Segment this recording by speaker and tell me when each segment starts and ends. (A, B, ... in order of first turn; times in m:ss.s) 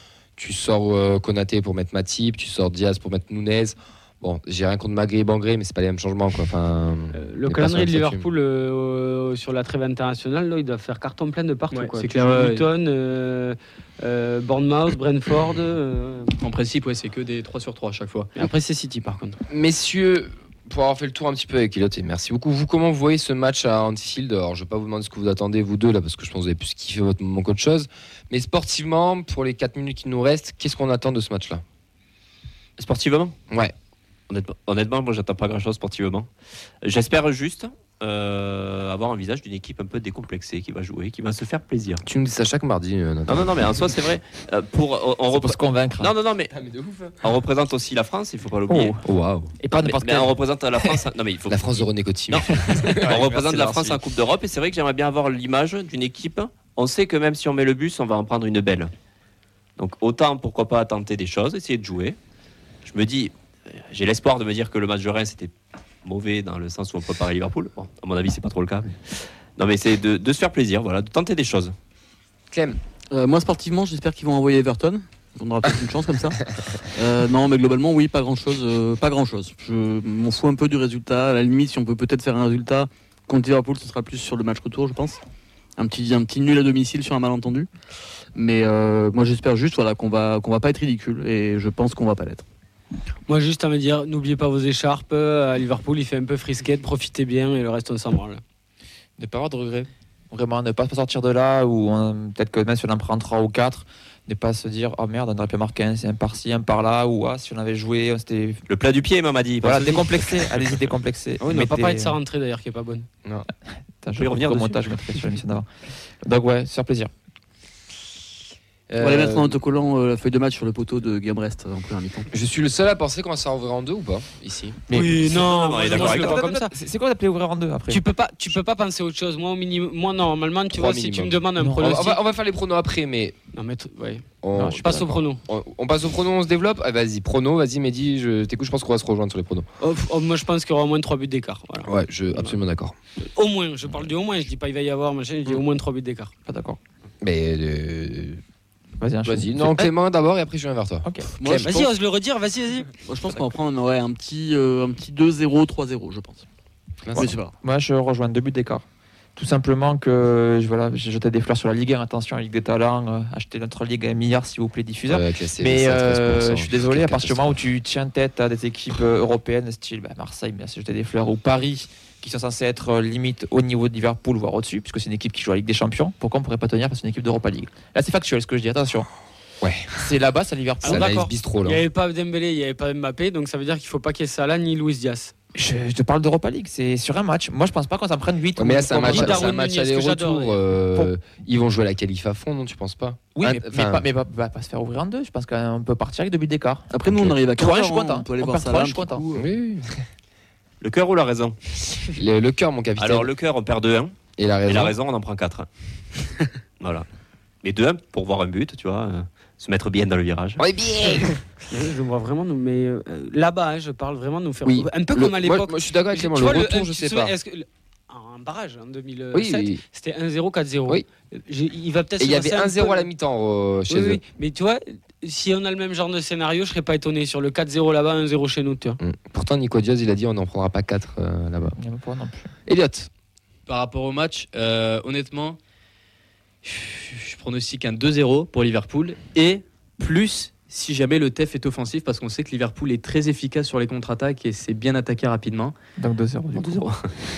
0:00.4-0:08.3 A
0:07.1-0:16.3 B
0:11.7-0:12.6 C
0:16.4-0:18.3 C
0:18.3-0:19.4 B
0:19.5-0:31.6 A
0:32.8-0:33.3 D
0:34.3-0:36.3 D
0:36.8-0:42.0 D
0:42.0-0:43.8 A
0:43.3-0:46.5 D
0:45.3-0:46.1 E
0:46.5-0:47.1 A
0:47.2-0:49.0 D
0:48.7-0:49.0 E
0:49.0-0:49.5 A
0:49.6-0:50.4 E
0:49.8-0:58.9 D
0:51.5-0:53.2 A
0:52.9-0:54.0 E
0:59.8-1:02.2 D
1:02.8-1:05.5 D
1:06.0-1:08.9 D
1:09.6-1:11.7 D
1:12.5-1:12.8 A
1:13.1-1:25.2 F
1:25.8-1:27.7 F
1:28.3-1:32.4 F
1:33.3-1:38.4 B
1:39.2-1:48.6 E
1:48.7-1:50.7 D
1:49.6-1:52.2 E
1:51.4-1:53.1 B
1:54.0-1:55.7 E
1:54.2-1:54.8 D
1:56.2-1:57.1 E
1:58.9-1:59.6 A
1:59.0-2:02.3 F
2:02.3-2:04.8 A
2:04.9-2:05.3 E
2:04.9-2:06.7 B
2:05.2-2:06.6 D
2:05.9-2:08.0 E
2:07.9-2:12.2 B
2:10.7-2:13.4 A
2:11.6-2:11.9 E
2:13.5-2:15.4 B
2:14.4-2:19.7 A
2:19.8-2:22.5 B
2:21.8-2:22.9 A
2:23.2-2:26.3 B
2:26.4-2:26.8 E
2:27.2-2:28.4 A
2:29.0-2:29.9 E
2:29.2-2:31.7 A
2:31.0-2:31.3 E
2:31.4-2:31.9 F
2:31.6-2:33.0 B
2:33.0-2:36.4 F
2:37.0-2:37.4 A
2:37.1-2:37.5 F
2:37.6-2:38.8 E
2:39.4-2:59.1 E
2:45.1-2:47.6 A
2:59.6-2:59.9 A
2:59.9-3:01.3 E
3:00.8-3:01.8 A
3:00.8-3:05.3 B
3:05.5-3:09.5 E
3:08.6-3:14.0 A
3:09.1-3:10.6 B
3:13.3-3:19.5 E
3:16.9-3:19.2 F
3:17.1-3:17.3 A
3:19.3-3:20.0 A
3:20.8-3:22.1 D
3:22.2-3:23.3 A
3:23.0-3:24.1 D
3:24.4-3:25.0 A
3:24.6-3:25.7 D
3:26.8-3:27.0 D
3:27.6-3:30.6 D
3:30.6-3:31.4 A
3:31.7-3:43.1 B
3:34.6-3:37.3 A
3:39.3-3:39.8 A
3:42.2-3:44.2 A
3:43.9-3:49.0 B
3:49.0-3:51.7 A
3:51.8-3:52.5 E
3:52.7-3:53.1 A
3:53.6-3:55.6 C
3:56.6-4:05.7 C
4:06.0-4:06.9 E
4:06.5-4:07.0 D